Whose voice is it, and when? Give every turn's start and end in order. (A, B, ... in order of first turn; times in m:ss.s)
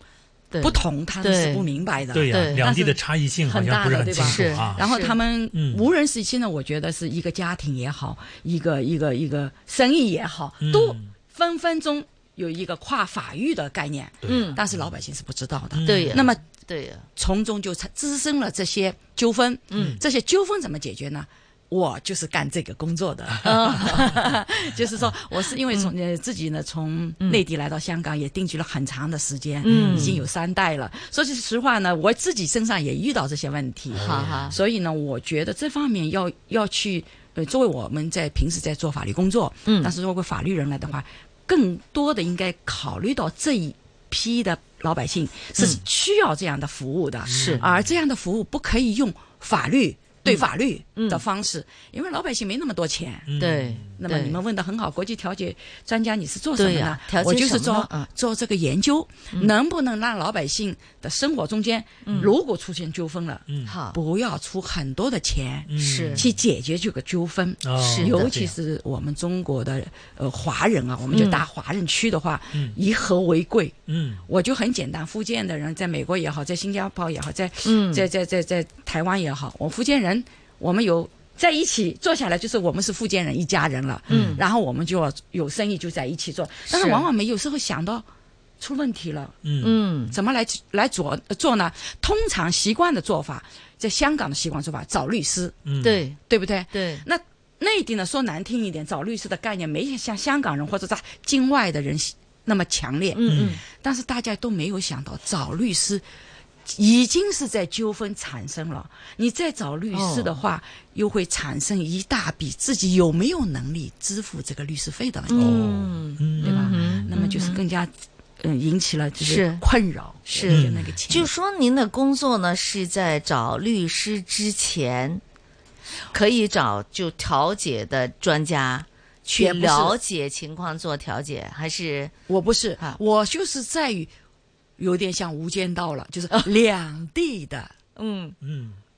0:00.5-0:01.6 A
0:00.6-0:16.4 B
0:02.1-0:04.8 C
0:02.3-0:02.6 A
0:04.1-0:05.2 A
0:05.5-0:05.9 C
0:10.6-0:11.1 C
0:14.2-0:14.9 C
0:14.2-0:14.6 A
0:15.7-0:16.3 C
0:15.8-0:17.1 A
0:17.2-0:53.3 B
0:19.7-0:20.0 A
0:19.7-0:20.0 C
0:23.4-0:24.2 A
0:25.6-0:25.9 A
0:29.6-0:30.2 A
0:29.7-0:30.2 C
0:33.9-0:34.6 C
0:33.9-0:34.6 A
0:39.6-0:39.9 A
0:45.6-0:45.8 A
0:47.2-0:48.0 C
0:47.3-0:47.6 A
0:50.2-0:51.2 A
0:53.3-0:53.9 C
0:53.4-0:54.4 A
0:54.0-1:28.0 B
0:56.6-0:58.1 A
1:02.0-1:02.3 A
1:03.5-1:03.7 C
1:03.6-1:04.0 A
1:05.7-1:06.4 C
1:05.8-1:06.3 A
1:07.6-1:08.5 C
1:07.8-1:08.4 A
1:11.1-1:11.4 A
1:13.9-1:14.2 C
1:17.6-1:18.1 A
1:24.1-1:24.4 C
1:24.1-1:24.4 A
1:26.7-1:27.1 A
1:28.6-1:29.4 B
1:29.4-1:29.8 C
1:29.6-1:30.2 A
1:30.1-1:35.6 B
1:35.6-1:36.0 C
1:35.8-1:36.2 A
1:36.3-1:46.0 B
1:36.7-1:37.0 A
1:43.1-1:43.6 A
1:43.2-1:43.6 C
1:46.6-1:55.4 B
1:49.9-1:50.4 A
1:55.3-1:57.6 A
1:55.3-1:57.1 C
1:56.4-2:01.3 B
1:59.2-1:59.6 A
2:00.3-2:05.2 A
2:00.5-2:00.9 C
2:06.1-2:12.1 A
2:09.4-2:10.0 B
2:12.3-2:14.1 B
2:14.8-2:17.7 B
2:18.0-2:18.4 A
2:18.4-2:18.8 C